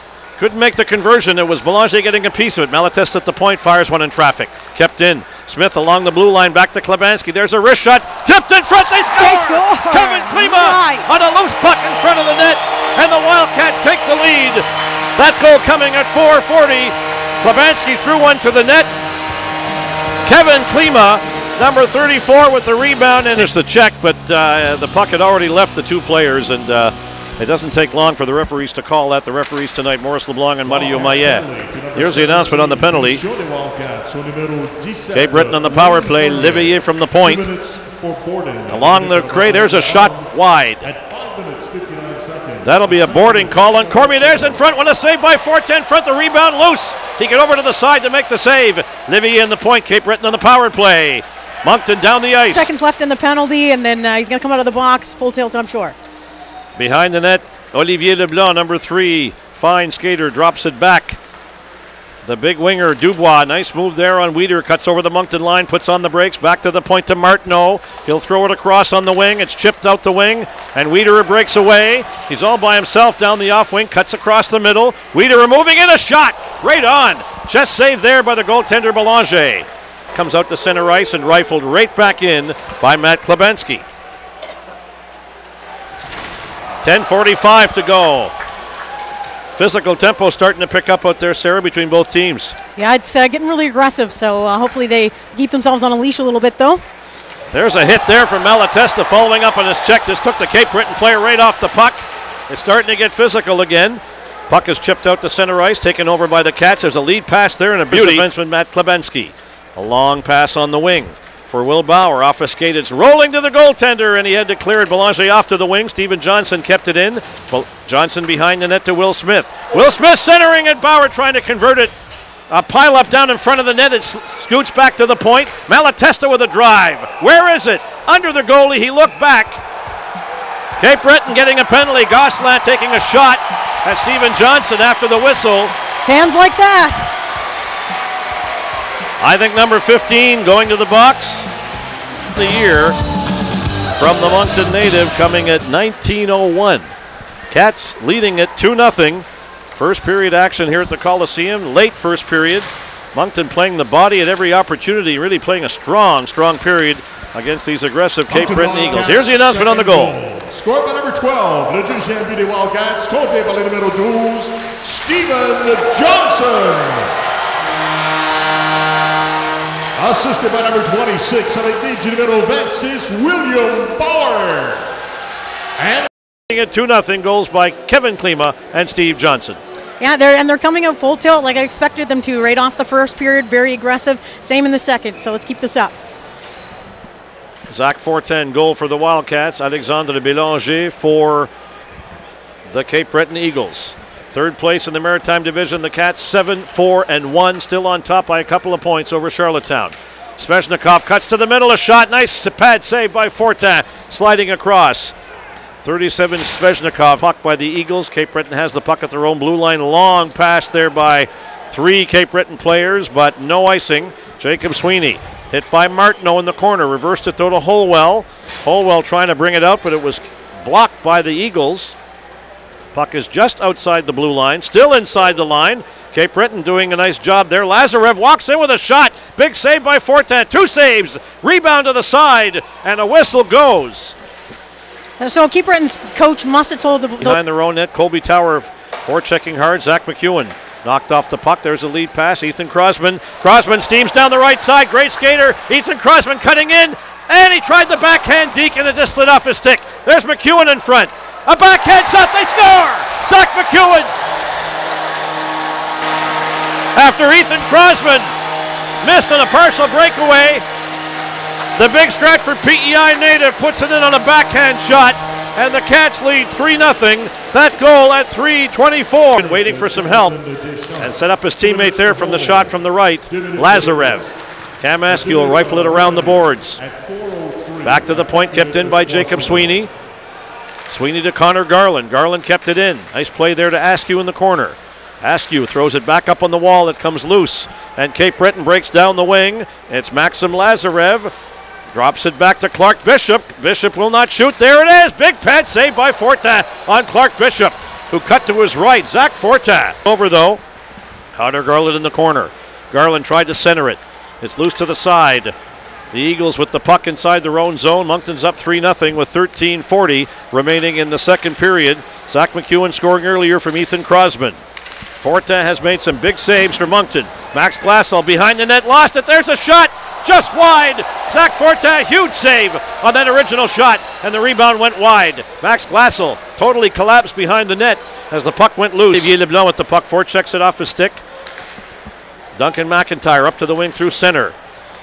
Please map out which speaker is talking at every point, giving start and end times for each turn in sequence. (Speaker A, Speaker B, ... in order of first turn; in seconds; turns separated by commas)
Speaker A: 0.4-18.9, Speaker B: 9.2-11.3, Speaker A: 20.2-33.2, Speaker C: 30.7-44.6, Speaker A: 35.1-37.5, Speaker A: 38.7-40.8, Speaker A: 42.6-52.7, Speaker B: 52.5-55.9, Speaker A: 56.8-61.2, Speaker A: 62.2-83.8, Speaker A: 86.8-88.3, Speaker A: 89.6-92.6, Speaker B: 92.8-96.8, Speaker A: 97.5-121.9, Speaker A: 122.5-129.6, Speaker A: 130.8-135.8, Speaker B: 136.0-137.1, Speaker A: 139.2-141.5, Speaker A: 142.3-143.0, Speaker A: 144.0-146.9, Speaker A: 147.5-160.2, Speaker C: 158.3-167.2, Speaker C: 170.0-174.9, Speaker C: 175.8-176.1, Speaker A: 176.5-179.6, Speaker B: 180.0-185.9, Speaker A: 187.7-191.5, Speaker A: 192.7-205.2, Speaker A: 205.8-222.0, Speaker A: 222.9-234.2, Speaker B: 235.2-237.3, Speaker A: 237.2-254.1, Speaker A: 256.9-258.3, Speaker A: 259.0-260.6, Speaker A: 261.8-270.4, Speaker C: 269.4-272.7, Speaker A: 271.0-274.3, Speaker C: 273.3-274.3, Speaker A: 274.8-276.8, Speaker C: 275.1-279.7, Speaker A: 277.8-279.9, Speaker A: 280.9-291.3, Speaker A: 291.9-300.6, Speaker A: 301.3-305.6, Speaker A: 306.1-314.6, Speaker A: 315.2-331.2, Speaker A: 332.6-334.6